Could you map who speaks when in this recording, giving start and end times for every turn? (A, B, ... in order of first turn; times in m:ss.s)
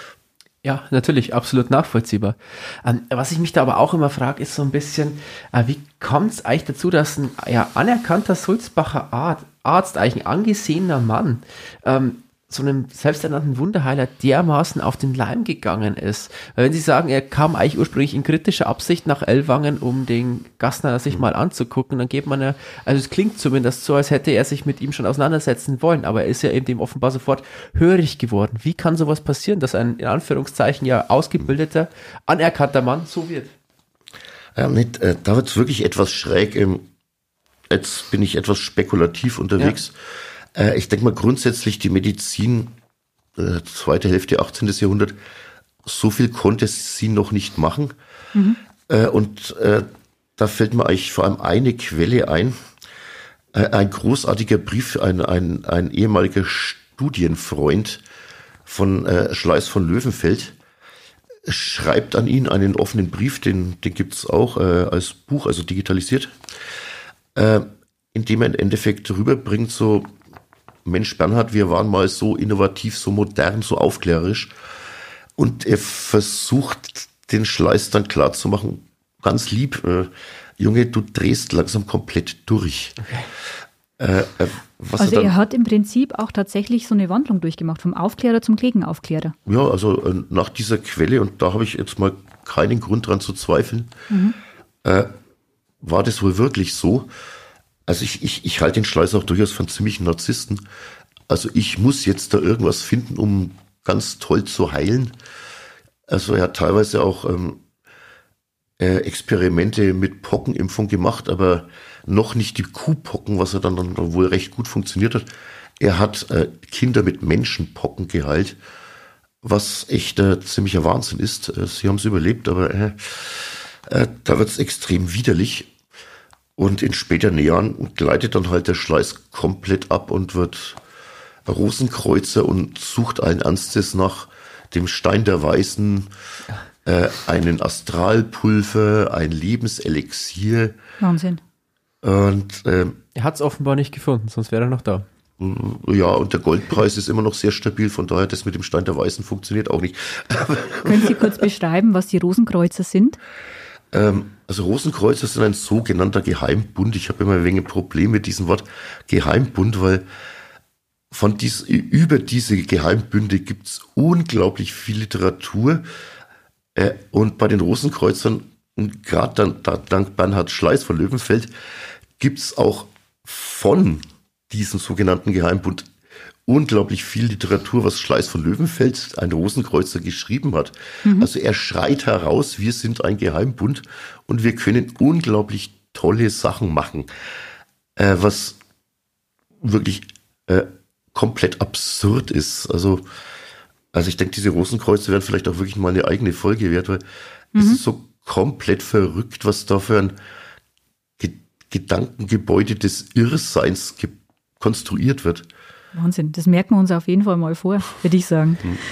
0:00.6-0:33.5 A
0:34.6-0:36.9 B
0:37.7-0:40.0 B
0:40.5-0:42.7 B
0:43.4-0:45.2 B
0:45.8-0:47.9 B
0:48.9-0:52.6 B
0:53.5-0:58.0 B
0:58.7-1:00.6 B
1:01.5-1:06.4 B
1:07.4-1:10.1 B
1:10.8-1:14.5 B
1:15.4-1:23.0 B
1:24.0-1:25.3 B
1:25.0-1:29.4 C
1:29.5-1:33.9 B
1:34.1-1:34.4 C
1:34.8-1:35.1 B
1:35.8-1:37.1 B
1:37.9-1:40.6 B
1:41.3-1:45.1 B
1:46.1-1:47.6 B
1:48.8-1:55.2 B
1:55.8-1:58.6 B
1:59.4-2:05.7 B
2:06.6-2:10.8 B
2:11.5-2:16.1 B
2:16.8-2:20.8 B
2:21.0-2:21.4 C
2:22.0-2:23.0 B
2:23.2-2:25.1 A
2:25.4-2:31.3 B
2:30.8-2:33.2 C
2:33.9-2:40.0 B
2:41.1-2:45.9 B
2:46.8-2:51.5 B
2:52.2-2:55.9 B
2:56.5-3:07.1 B
3:01.0-3:01.3 C
3:08.0-3:08.6 B
3:09.6-3:13.0 B
3:13.9-3:17.0 B
3:17.6-3:17.8 C
3:17.6-3:20.2 B
3:21.2-3:25.5 B
3:25.9-3:28.8 C